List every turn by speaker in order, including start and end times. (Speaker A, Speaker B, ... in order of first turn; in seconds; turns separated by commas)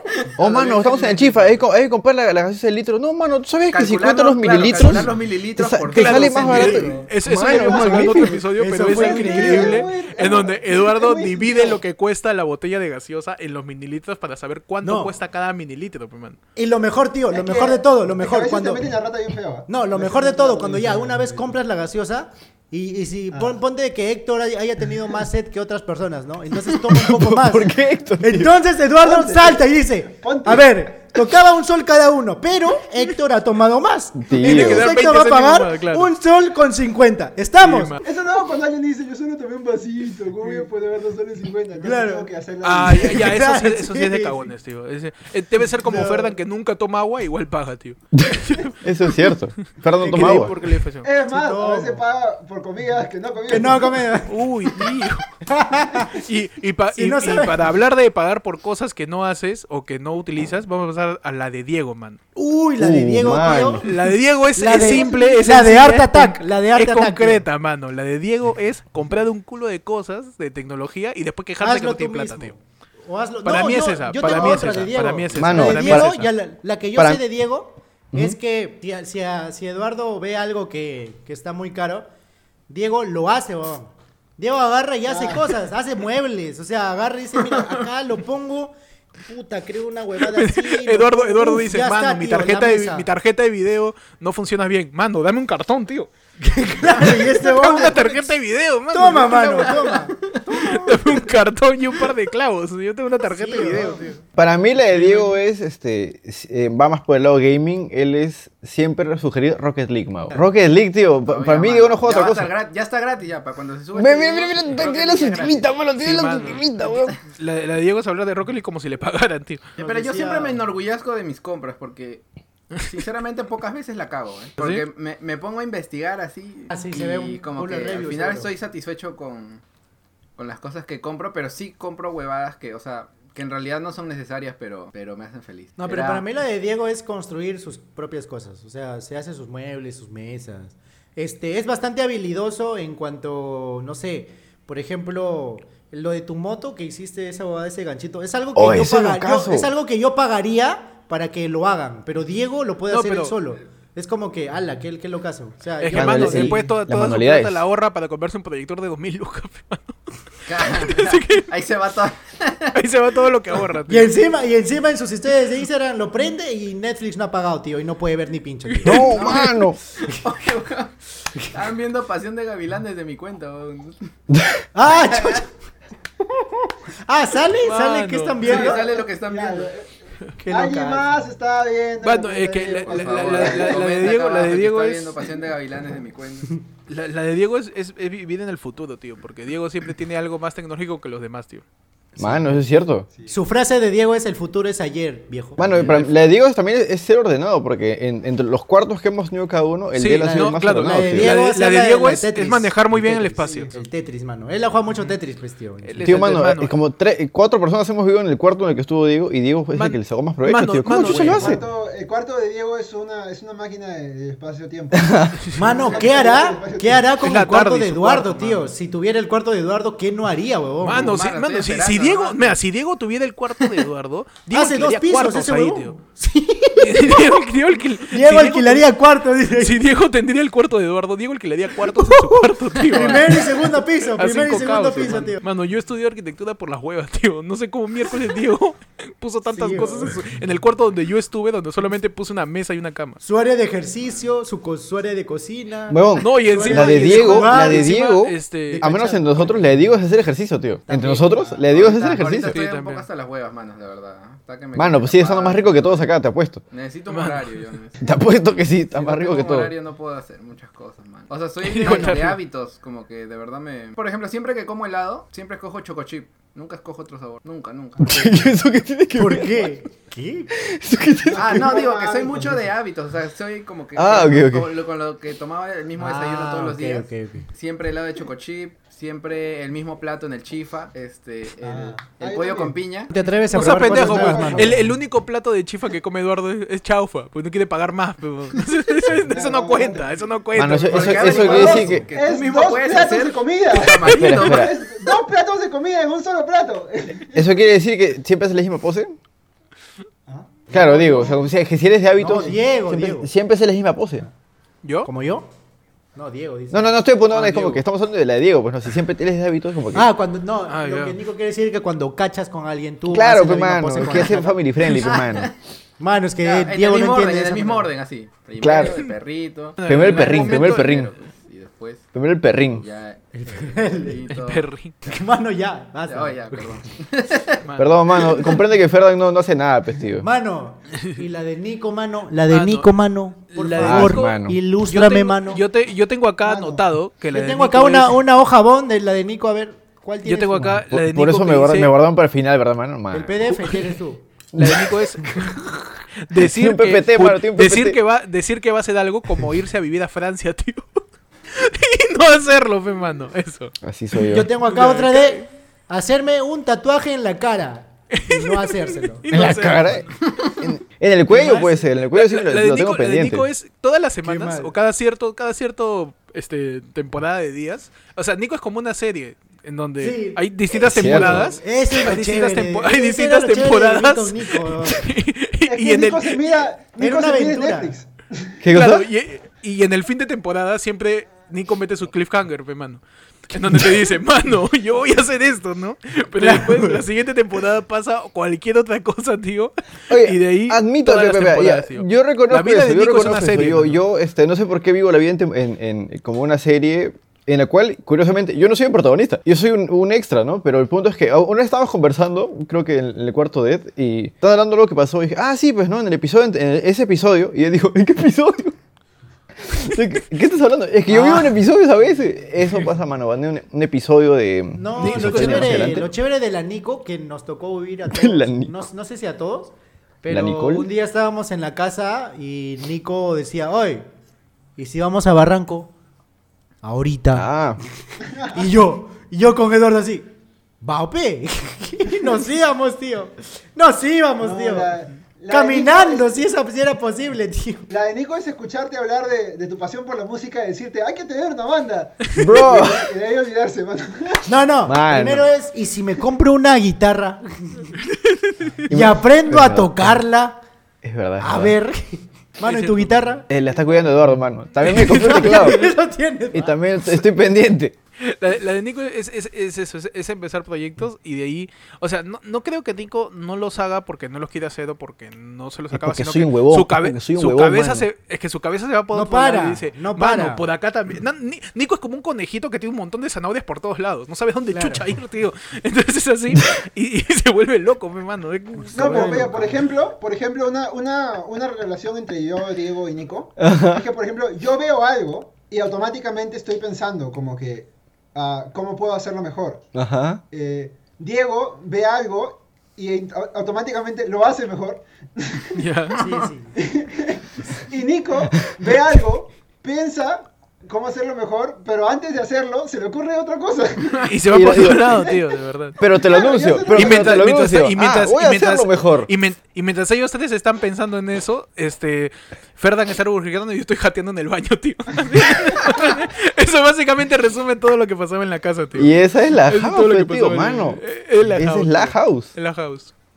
Speaker A: 0.2-1.2, Speaker B: 0.4-8.4, Speaker A: 3.7-7.1, Speaker C: 5.9-16.4, Speaker D: 6.5-7.0, Speaker E: 7.4-11.8, Speaker D: 7.6-9.8, Speaker D: 14.8-15.1, Speaker D: 16.6-18.9, Speaker E: 17.3-21.6, Speaker D: 19.7-38.0, Speaker B: 26.8-28.5, Speaker E: 29.0-29.7, Speaker E: 30.2-30.7, Speaker B: 34.2-34.9, Speaker C: 34.4-36.1, Speaker C: 37.6-38.0, Speaker E: 38.0-43.4, Speaker D: 41.8-42.3, Speaker C: 42.6-48.8, Speaker D: 42.9-44.5, Speaker D: 45.8-46.3, Speaker B: 48.1-50.5, Speaker C: 50.0-51.1, Speaker D: 50.1-50.5, Speaker E: 51.0-54.1, Speaker D: 51.3-52.0, Speaker D: 53.5-54.4, Speaker C: 54.3-55.3, Speaker D: 55.5-56.2, Speaker C: 56.1-62.2, Speaker D: 56.9-57.6, Speaker D: 62.4-63.9, Speaker B: 62.8-63.9, Speaker C: 63.8-72.5, Speaker D: 64.6-67.5, Speaker D: 71.6-82.1, Speaker C: 73.4-76.3, Speaker E: 74.2-74.6, Speaker B: 75.3-76.2, Speaker B: 77.0-77.2, Speaker B: 78.1-78.4, Speaker D: 82.7-93.1, Speaker E: 85.1-85.5, Speaker C: 90.2-104.2, Speaker D: 96.5-98.3, Speaker D: 98.9-100.2, Speaker A: 100.1-100.5, Speaker E: 100.6-101.1, Speaker D: 103.2-104.2, Speaker B: 104.4-112.5, Speaker C: 104.9-105.3, Speaker A: 111.2-115.7, Speaker B: 113.9-117.2, Speaker C: 116.0-116.7, Speaker C: 117.2-119.7, Speaker D: 119.8-120.6, Speaker A: 119.8-129.6, Speaker C: 124.6-124.8, Speaker D: 126.7-128.5, Speaker A: 130.4-136.3, Speaker D: 135.8-156.7, Speaker B: 148.6-149.7, Speaker C: 152.9-153.3, Speaker C: 155.8-160.0, Speaker B: 155.9-157.6, Speaker A: 160.5-162.8, Speaker C: 160.6-161.5, Speaker C: 162.7-164.1, Speaker D: 163.9-169.1, Speaker C: 168.7-169.4, Speaker B: 168.8-169.8, Speaker A: 169.1-174.1, Speaker B: 174.3-174.6, Speaker D: 174.8-175.5, Speaker A: 174.9-175.5, Speaker D: 177.1-178.9, Speaker C: 177.6-178.4, Speaker A: 178.4-179.7, Speaker E: 178.5-179.9, Speaker D: 180.4-181.2, Speaker E: 180.5-183.9, Speaker C: 182.0-185.3, Speaker A: 182.8-186.6, Speaker C: 186.9-191.7, Speaker B: 192.2-193.1, Speaker D: 193.3-196.1, Speaker B: 195.6-201.3, Speaker C: 199.9-203.7, Speaker D: 200.2-206.3, Speaker E: 203.4-203.9, Speaker C: 205.9-206.8, Speaker B: 206.0-211.6, Speaker C: 209.7-211.6, Speaker E: 211.1-217.2, Speaker B: 214.9-215.4, Speaker D: 215.6-221.1, Speaker C: 217.2-218.7, Speaker C: 220.8-226.0, Speaker A: 220.9-222.6, Speaker D: 224.5-227.4, Speaker C: 226.8-228.9, Speaker D: 228.1-229.8, Speaker C: 229.6-243.2, Speaker D: 231.9-232.4, Speaker D: 232.9-235.4, Speaker D: 239.5-240.2, Speaker D: 243.2-248.0, Speaker B: 245.9-252.6, Speaker C: 246.2-249.0, Speaker D: 248.7-249.8, Speaker D: 250.9-251.6, Speaker A: 251.0-256.1, Speaker C: 252.4-253.1, Speaker B: 254.8-256.6, Speaker A: 256.7-258.1, Speaker C: 257.1-257.7, Speaker B: 258.0-259.7, Speaker A: 258.9-268.5, Speaker C: 261.6-262.4, Speaker D: 261.8-262.3, Speaker B: 268.0-269.8, Speaker D: 269.1-270.5, Speaker B: 270.6-271.8, Speaker E: 271.3-272.7, Speaker A: 271.3-283.1, Speaker B: 273.9-274.7, Speaker D: 276.0-277.5, Speaker E: 281.6-282.8, Speaker D: 283.1-284.9, Speaker E: 283.5-285.0, Speaker C: 283.5-291.4, Speaker E: 289.3-290.2, Speaker B: 290.6-292.1, Speaker A: 290.8-294.7, Speaker E: 291.2-297.5, Speaker D: 291.5-292.0, Speaker C: 293.8-294.2, Speaker B: 294.1-294.7, Speaker B: 297.3-299.2, Speaker E: 300.3-301.4, Speaker B: 300.7-304.3, Speaker D: 302.2-303.3, Speaker E: 302.3-302.6, Speaker C: 304.8-305.1, Speaker D: 305.1-305.5, Speaker D: 306.1-307.0, Speaker B: 306.7-310.1, Speaker D: 309.9-314.6, Speaker C: 310.7-311.2, Speaker B: 313.1-315.5, Speaker A: 314.9-315.5, Speaker D: 316.0-317.9, Speaker A: 316.4-322.1, Speaker B: 318.6-319.0, Speaker C: 318.8-319.1, Speaker C: 319.8-321.0, Speaker B: 319.9-321.1, Speaker B: 322.1-322.8, Speaker A: 322.8-324.7, Speaker D: 323.3-324.2, Speaker C: 324.3-325.0, Speaker D: 325.1-326.8, Speaker A: 326.1-327.6, Speaker C: 327.6-328.3, Speaker B: 327.8-330.3, Speaker D: 330.2-335.6, Speaker C: 332.5-332.9, Speaker C: 333.5-338.2, Speaker B: 333.8-334.6, Speaker E: 336.4-336.8, Speaker D: 337.3-340.8, Speaker C: 340.2-341.9, Speaker B: 340.6-343.5, Speaker D: 343.1-344.2, Speaker C: 343.5-344.0, Speaker B: 344.5-344.9, Speaker C: 344.6-351.0, Speaker B: 346.4-348.0, Speaker C: 351.5-353.8, Speaker B: 353.8-354.5, Speaker D: 354.3-359.2, Speaker C: 354.6-355.5, Speaker C: 358.1-360.1, Speaker B: 359.3-363.5, Speaker D: 361.3-361.7, Speaker C: 361.5-376.6, Speaker D: 364.2-364.7, Speaker D: 370.0-375.1, Speaker B: 370.7-371.6, Speaker E: 375.7-378.6, Speaker D: 377.0-378.0, Speaker B: 378.6-379.1, Speaker C: 378.7-394.0, Speaker D: 386.4-387.0, Speaker B: 390.1-408.8, Speaker B: 409.6-416.1, Speaker D: 411.1-411.6, Speaker D: 414.7-424.1, Speaker C: 415.0-416.0, Speaker B: 418.1-418.7, Speaker B: 420.3-420.9, Speaker D: 424.8-425.9, Speaker D: 426.8-427.5, Speaker B: 427.3-427.8, Speaker E: 428.2-428.6, Speaker D: 428.5-430.3, Speaker D: 430.8-434.9, Speaker E: 434.4-436.4, Speaker D: 435.5-437.9, Speaker E: 437.9-444.5, Speaker B: 442.4-443.1, Speaker D: 444.5-448.0, Speaker B: 444.9-445.5, Speaker C: 448.1-448.7, Speaker B: 448.9-450.2, Speaker D: 448.9-450.6, Speaker B: 451.0-451.8, Speaker D: 451.4-453.5, Speaker C: 452.6-453.4, Speaker B: 453.5-455.9, Speaker D: 454.9-456.8, Speaker C: 455.1-455.8, Speaker B: 456.5-458.0, Speaker C: 458.2-479.7, Speaker B: 465.9-468.1, Speaker D: 469.1-470.6, Speaker D: 474.7-475.1, Speaker E: 478.9-489.9, Speaker D: 479.0-479.6, Speaker B: 483.6-484.1, Speaker B: 489.9-490.4, Speaker E: 490.5-495.8, Speaker C: 495.8-496.2, Speaker A: 496.1-496.5, Speaker D: 496.2-496.7, Speaker E: 496.8-505.4, Speaker C: 504.2-506.0, Speaker B: 504.5-505.3, Speaker B: 506.0-509.3, Speaker E: 506.1-507.5, Speaker C: 506.9-523.1, Speaker B: 519.0-522.5